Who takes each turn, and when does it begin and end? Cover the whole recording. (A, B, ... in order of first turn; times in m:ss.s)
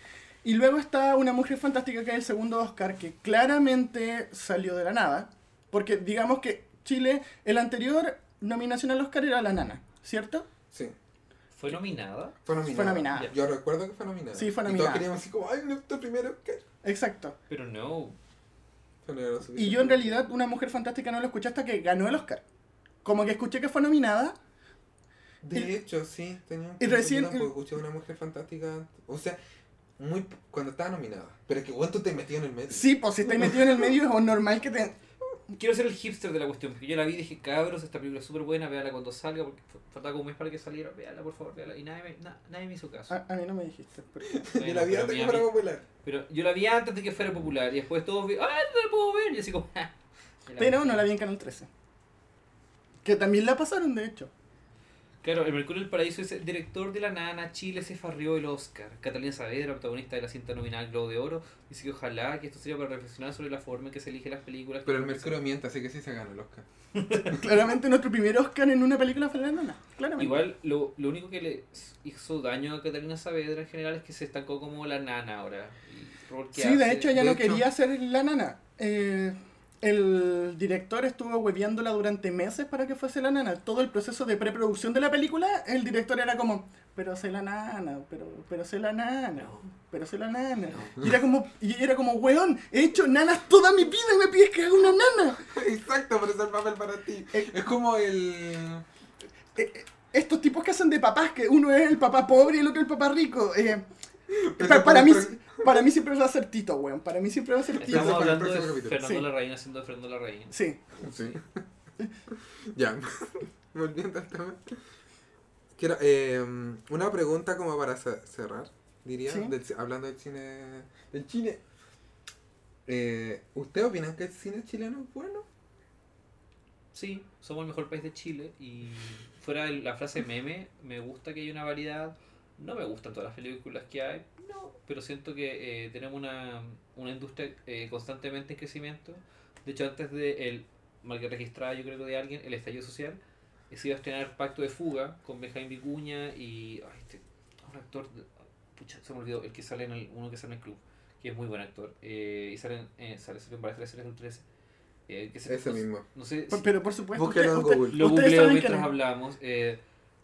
0:00.4-0:10.5 A
0:11.5-0:12.4 B
0:12.4-0:16.6 C
0:12.6-0:13.3 A
0:14.3-0:15.0 A
0:16.8-0:17.4 A
0:17.5-0:18.2 B
0:19.0-0:20.2 C
0:19.6-0:22.4 A
0:23.0-0:24.3 A
0:25.4-0:29.4 C
0:26.8-0:27.5 A
0:30.0-0:32.9 C
0:32.7-0:34.9 A
0:35.6-0:43.2 B
0:43.1-0:44.4 A
0:44.3-0:45.8 C
0:44.5-0:45.5 B
0:46.0-0:49.9 B
0:50.4-0:51.0 B
0:50.6-0:51.7 A
0:53.0-0:54.3 A
0:55.2-1:05.4 B
1:04.8-1:06.6 C
1:06.9-1:07.4 B
1:07.2-1:10.4 A
1:10.2-1:17.1 B
1:16.5-1:35.4 A
1:17.1-1:17.7 C
1:29.4-1:29.6 B
1:30.7-1:31.0 B
1:35.3-1:38.8 C
1:39.6-1:43.8 A
1:44.3-1:45.8 C
1:44.5-1:48.4 A
1:47.7-1:49.0 C
1:47.8-1:51.4 B
1:49.0-1:49.2 A
1:50.5-1:50.8 A
1:51.0-1:51.6 C
1:52.3-1:54.8 C
1:55.8-2:01.6 C
1:59.3-1:59.5 A
2:02.8-2:05.5 C
2:06.9-2:23.2 B
2:23.7-2:34.4 B
2:35.1-2:36.7 B
2:35.5-2:36.0 C
2:36.5-2:38.9 A
2:37.1-2:38.1 C
2:37.9-2:39.8 B